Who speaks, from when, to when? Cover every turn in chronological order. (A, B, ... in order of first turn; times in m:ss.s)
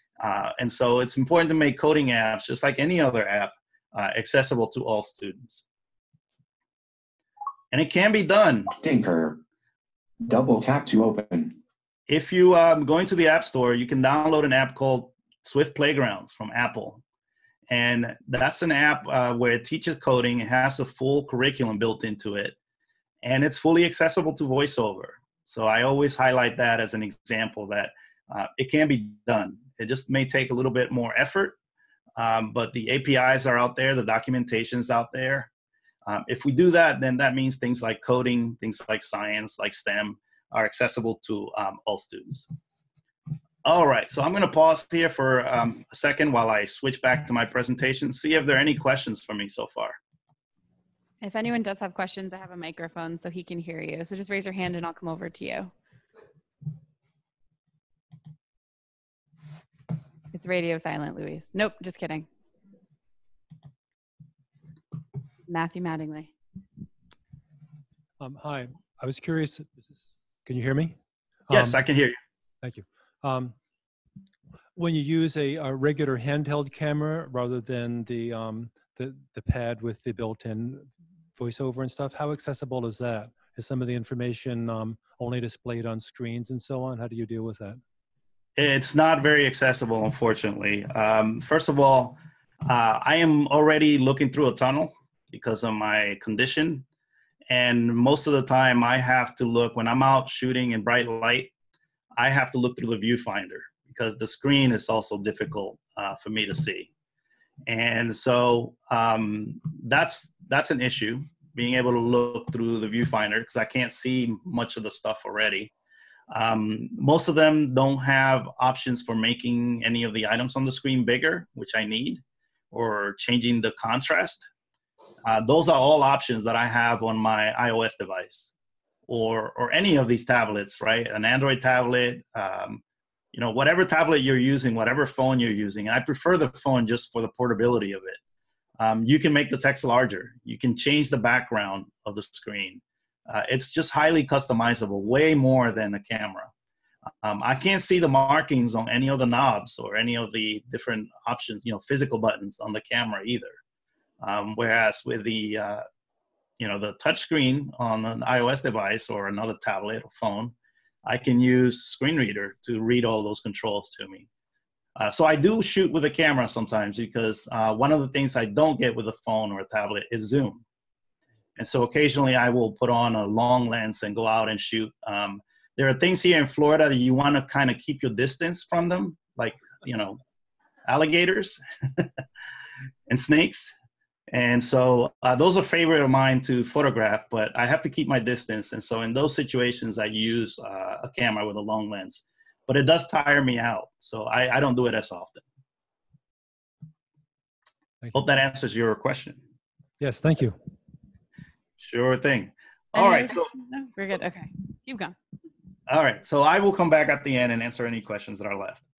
0:00.2-0:05.6 A
0:07.7-0:08.8 A
0:08.8-0:09.4 B
0:10.2-0:11.6 B
0:12.1-0:17.0 A
0:17.7-0:22.6 A
0:23.2-0:31.6 A
0:32.2-0:35.5 A
0:36.1-0:42.5 A
0:43.6-0:50.0 A
0:51.2-0:55.7 C
1:00.3-1:02.3 C
1:05.5-1:06.3 C
1:08.2-1:11.0 D
1:11.5-1:11.8 D
1:11.5-1:12.2 A
1:12.6-1:13.6 D
1:14.8-1:27.8 D
1:28.6-1:36.8 A
1:37.5-1:41.5 A
1:42.2-1:46.9 A
1:47.7-1:55.7 A
1:56.3-2:04.4 A
2:05.2-2:08.5 A
2:09.1-2:12.8 A
2:13.3-2:18.2 A
2:18.8-2:26.5 A
2:27.2-2:33.6 A
2:34.2-2:35.8 A
2:36.6-2:40.5 A
2:41.0-2:44.3 A
2:45.0-2:50.6 A
2:51.6-3:00.2 A
3:00.9-3:02.1 A
3:03.1-3:03.7 A
3:04.3-3:15.4 A
3:18.1-3:19.4 A
3:20.0-3:20.6 D
3:21.8-3:23.5 A
3:23.0-3:25.2 C
3:25.9-3:28.8 A